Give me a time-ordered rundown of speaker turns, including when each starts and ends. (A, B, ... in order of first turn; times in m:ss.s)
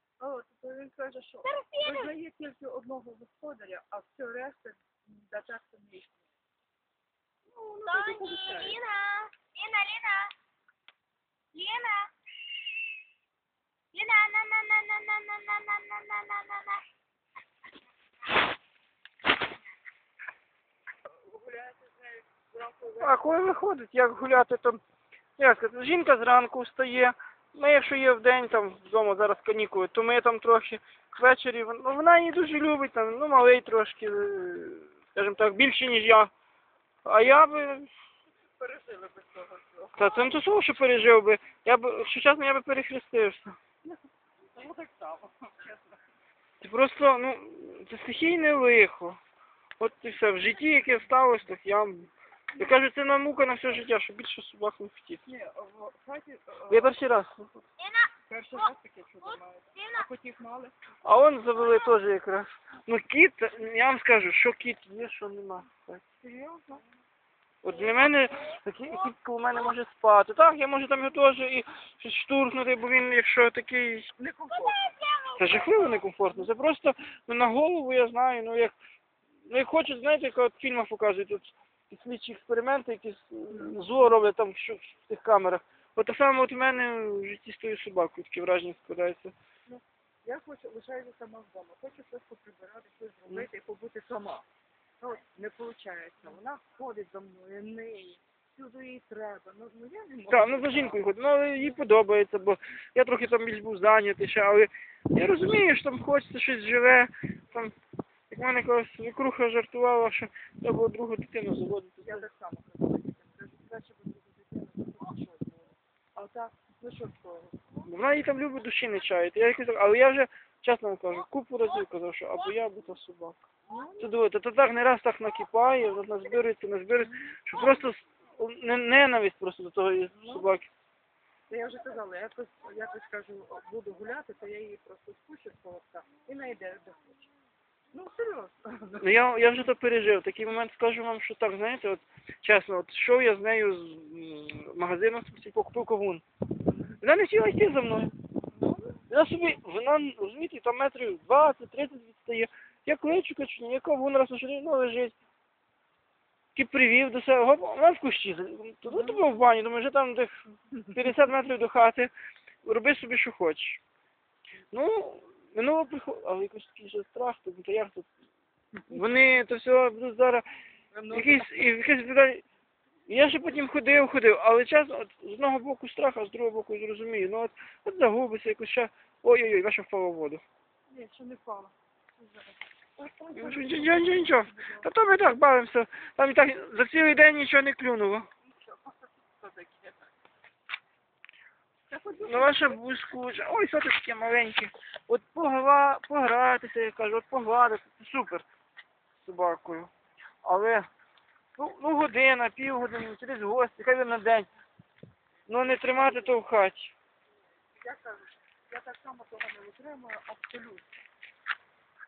0:00.2-0:06.2 A
0:01.4-0:02.1 B
0:07.6-0:10.3 B
0:07.8-0:08.8 A
0:11.5-0:12.1 B
0:13.9-0:16.8 B
0:21.3-0:23.4 A
0:23.0-0:24.8 C
0:25.4-0:36.3 C
0:37.0-0:37.9 C
0:38.6-0:40.3 A
0:40.0-0:43.6 C
0:44.5-0:46.0 A
0:46.6-0:49.2 C
0:49.8-0:55.2 C
0:55.3-0:57.0 A
0:56.7-0:57.5 C
0:57.8-0:58.7 B
0:58.3-1:00.8 A
0:59.2-1:00.1 B
1:01.0-1:06.0 C
1:06.2-1:06.8 A
1:07.6-1:14.1 C
1:14.2-1:14.9 A
1:14.6-1:16.0 B
1:15.4-1:18.8 C
1:19.5-1:29.3 C
1:29.7-1:34.5 A
1:35.0-1:41.0 A
1:40.3-1:47.7 C
1:48.3-1:52.3 C
1:52.0-1:57.9 A
1:57.9-2:03.4 C
2:03.7-2:04.2 A
2:04.0-2:10.7 C
2:07.0-2:07.4 A
2:10.2-2:10.6 A
2:11.5-2:17.2 A
2:17.9-2:19.1 A
2:19.0-2:26.2 C
2:26.7-2:27.0 A
2:27.0-2:28.1 C
2:28.5-2:29.0 A
2:29.1-2:35.2 C
2:36.6-2:40.4 C
2:38.9-2:39.3 A
2:40.9-2:42.1 C
2:42.6-2:43.8 C
2:44.7-2:48.1 C
2:48.8-2:49.0 A
2:48.9-2:50.5 C
2:50.9-2:51.6 A
2:51.1-2:52.4 C
2:53.1-3:00.4 C
3:00.9-3:04.9 A
3:03.4-3:08.3 C
3:08.4-3:10.1 A
3:11.9-3:12.8 A
3:12.3-3:18.5 C
3:19.2-3:19.9 C
3:20.4-3:20.9 C
3:21.6-3:24.5 C
3:25.5-3:26.9 C
3:25.5-3:26.4 A
3:27.8-3:30.9 A